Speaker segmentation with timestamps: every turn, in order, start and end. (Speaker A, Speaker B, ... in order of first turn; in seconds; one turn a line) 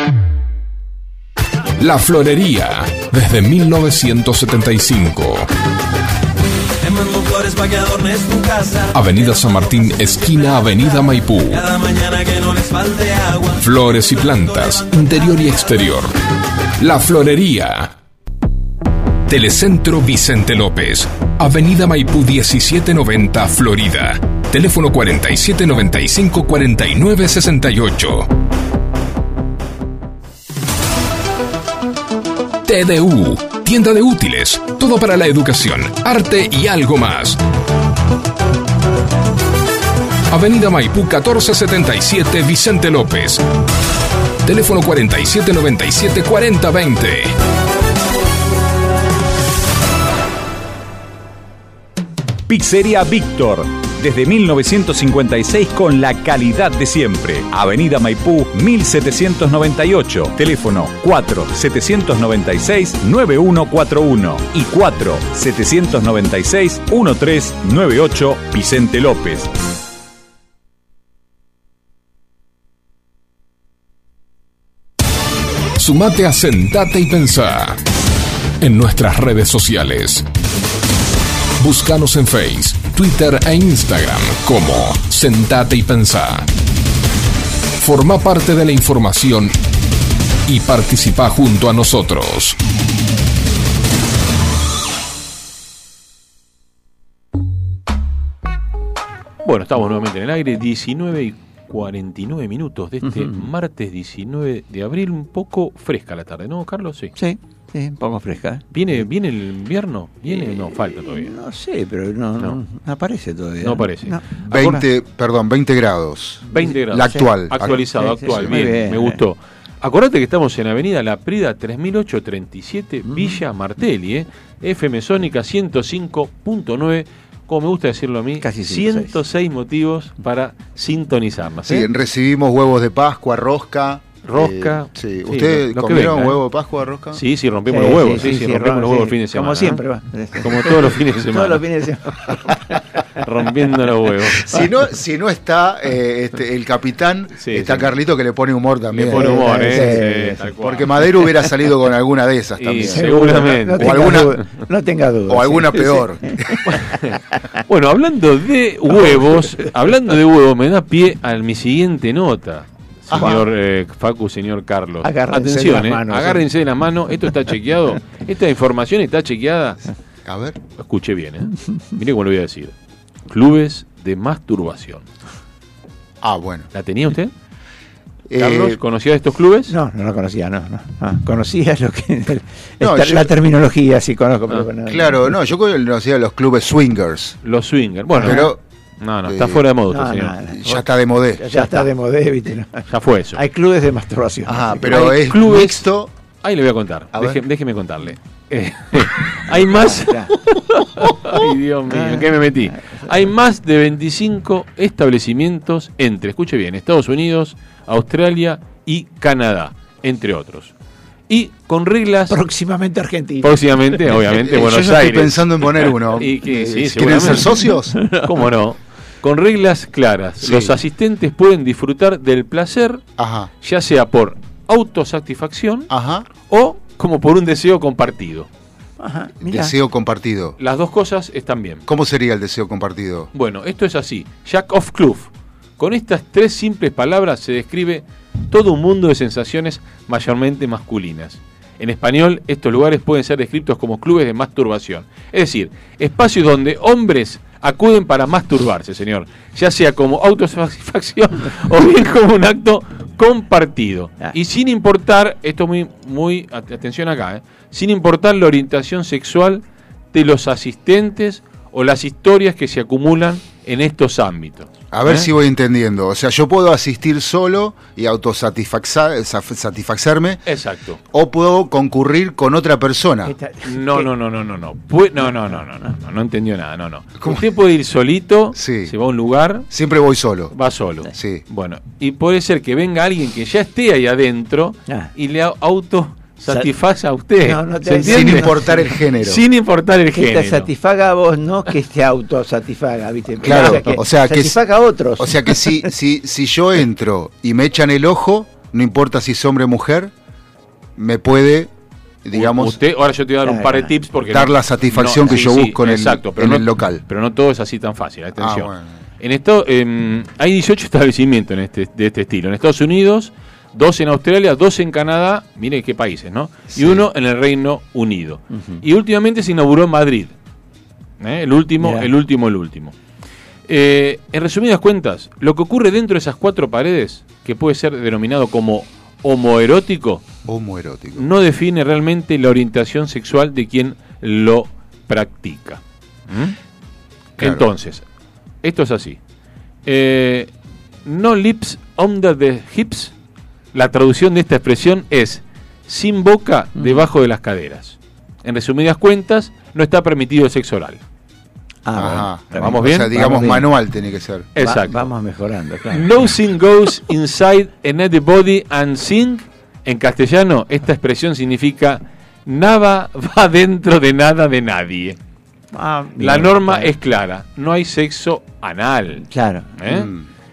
Speaker A: 1.8-5.5
Speaker B: 6.8-8.9
Speaker A: 8.9-11.6
Speaker B: 11.5-13.6
Speaker A: 13.6-16.1
Speaker B: 14.4-14.9
Speaker A: 16.8-17.9
Speaker A: 19.3-28.3
Speaker A: 32.6-37.4
Speaker A: 40.3-43.4
Speaker A: 44.4-47.3
Speaker C: 52.5-69.5
Speaker A: 75.8-77.8
Speaker A: 78.6-80.2
Speaker A: 81.6-86.5
Speaker A: 87.8-89.6
Speaker A: 90.5-92.6
Speaker D: 99.4-107.1
Speaker E: 103.0-103.5
Speaker E: 107.2-108.7
Speaker D: 108.7-111.3
Speaker E: 110.2-114.8
Speaker D: 113.6-114.2
Speaker F: 114.5-117.7
Speaker E: 116.5-119.2
Speaker D: 116.5-131.9
Speaker E: 123.0-123.4
Speaker E: 128.4-129.2
Speaker F: 131.7-137.2
Speaker D: 134.2-136.4
Speaker D: 137.1-139.8
Speaker E: 137.7-143.2
Speaker D: 140.3-141.6
Speaker D: 143.1-144.5
Speaker F: 144.4-150.0
Speaker D: 147.4-147.9
Speaker D: 148.9-151.3
Speaker E: 149.1-150.4
Speaker F: 150.6-154.3
Speaker D: 152.6-154.4
Speaker E: 152.8-156.8
Speaker F: 155.3-156.6
Speaker D: 156.7-169.8
Speaker E: 159.0-159.7
Speaker E: 163.1-163.4
Speaker E: 165.0-166.5
Speaker F: 170.2-170.6
Speaker D: 170.8-172.7
Speaker D: 173.3-175.1
Speaker F: 176.2-176.7
Speaker D: 176.7-177.3
Speaker F: 178.3-178.8
Speaker D: 178.3-179.7
Speaker E: 179.7-185.3
Speaker F: 182.8-183.3
Speaker F: 184.8-187.4
Speaker D: 187.4-188.5
Speaker E: 188.1-188.5
Speaker F: 188.2-188.6
Speaker D: 189.0-190.4
Speaker F: 189.3-189.6
Speaker E: 189.9-195.2
Speaker F: 190.6-191.7
Speaker D: 192.9-193.4
Speaker F: 194.4-196.1
Speaker D: 194.9-195.9
Speaker D: 196.4-210.7
Speaker F: 197.1-197.4
Speaker E: 199.6-200.4
Speaker E: 201.9-203.3
Speaker D: 211.3-212.4
Speaker E: 212.3-213.8
Speaker D: 213.4-223.0
Speaker F: 214.2-218.0
Speaker E: 217.1-218.3
Speaker F: 223.2-223.5
Speaker D: 223.6-228.5
Speaker F: 225.9-226.2
Speaker E: 229.0-229.8
Speaker F: 229.5-230.6
Speaker D: 230.6-231.8
Speaker F: 231.9-233.3
Speaker D: 233.3-265.3
Speaker F: 264.9-270.4
Speaker D: 270.4-271.0
Speaker F: 271.1-273.3
Speaker E: 273.2-274.1
Speaker D: 273.6-279.7
Speaker F: 278.5-278.9
Speaker F: 279.7-280.5
Speaker D: 280.5-290.7
Speaker F: 281.1-281.4
Speaker E: 287.4-288.9
Speaker F: 287.9-289.4
Speaker E: 290.1-295.9
Speaker F: 293.4-294.6
Speaker D: 293.5-293.9
Speaker F: 295.2-300.1
Speaker F: 301.0-301.7
Speaker F: 302.2-302.8
Speaker D: 302.3-320.3
Speaker E: 303.4-303.9
Speaker F: 304.3-307.0
Speaker F: 308.4-308.8
Speaker E: 316.7-317.0
Speaker E: 318.5-318.8
Speaker D: 321.2-322.9
Speaker E: 321.8-322.1
Speaker D: 323.7-330.2
Speaker F: 330.4-331.3
Speaker D: 331.1-336.5
Speaker D: 337.4-338.0
Speaker F: 337.4-337.6
Speaker D: 338.6-339.2
Speaker D: 339.9-340.5
Speaker D: 341.0-343.1
Speaker D: 343.7-351.0
Speaker E: 346.8-347.1
Speaker E: 351.8-353.6
Speaker F: 351.9-354.5
Speaker D: 352.6-353.3
Speaker D: 354.6-355.0
Speaker E: 354.6-356.1
Speaker D: 355.9-365.2
Speaker E: 365.7-366.9
Speaker D: 366.2-370.1
Speaker E: 369.3-369.7
Speaker F: 369.9-370.2